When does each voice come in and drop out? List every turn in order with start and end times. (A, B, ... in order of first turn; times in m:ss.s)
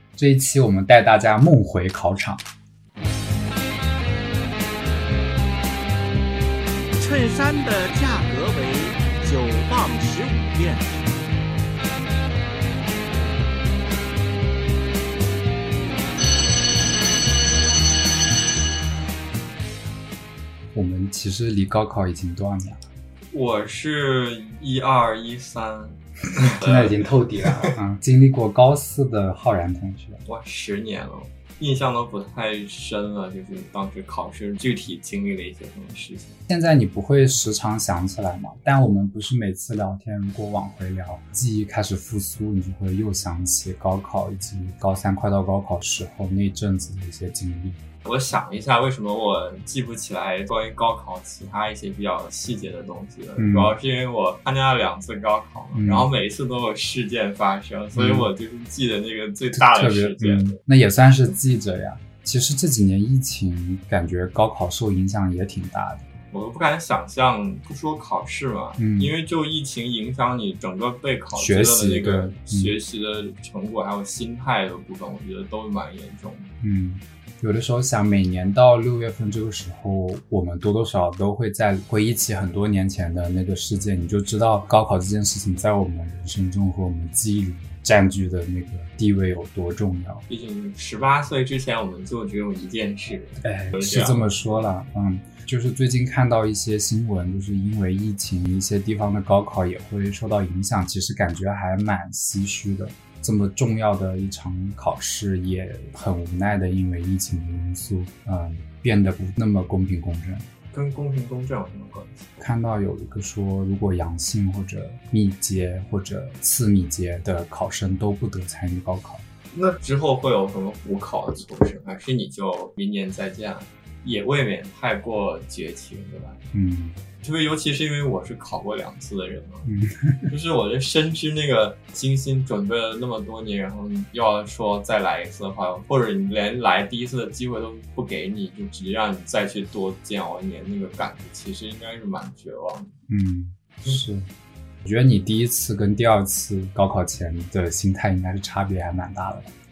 0:00.2-0:02.4 A
0:07.0-0:11.2 B
0:20.7-0:22.8 A
0:23.3-0:27.8 C
0:26.4-0:30.2 A
0:30.2-0:36.4 C
0:36.5-0:47.8 A
0:48.0-1:00.6 C
0:53.4-0:53.7 A
0:55.8-0:56.1 A
0:58.0-0:58.3 A
0:59.6-1:06.1 A
1:06.3-1:16.5 C
1:08.8-1:09.1 A
1:11.3-1:12.7 A
1:16.6-1:30.2 A
1:30.3-1:34.3 C
1:33.4-1:50.5 A
1:50.7-1:52.4 C
1:52.4-1:59.2 A
1:59.5-2:06.4 C
2:06.5-2:07.0 A
2:07.2-2:09.7 C
2:09.7-2:10.3 A
2:10.3-2:22.9 C
2:23.1-2:24.3 A
2:24.8-2:29.5 A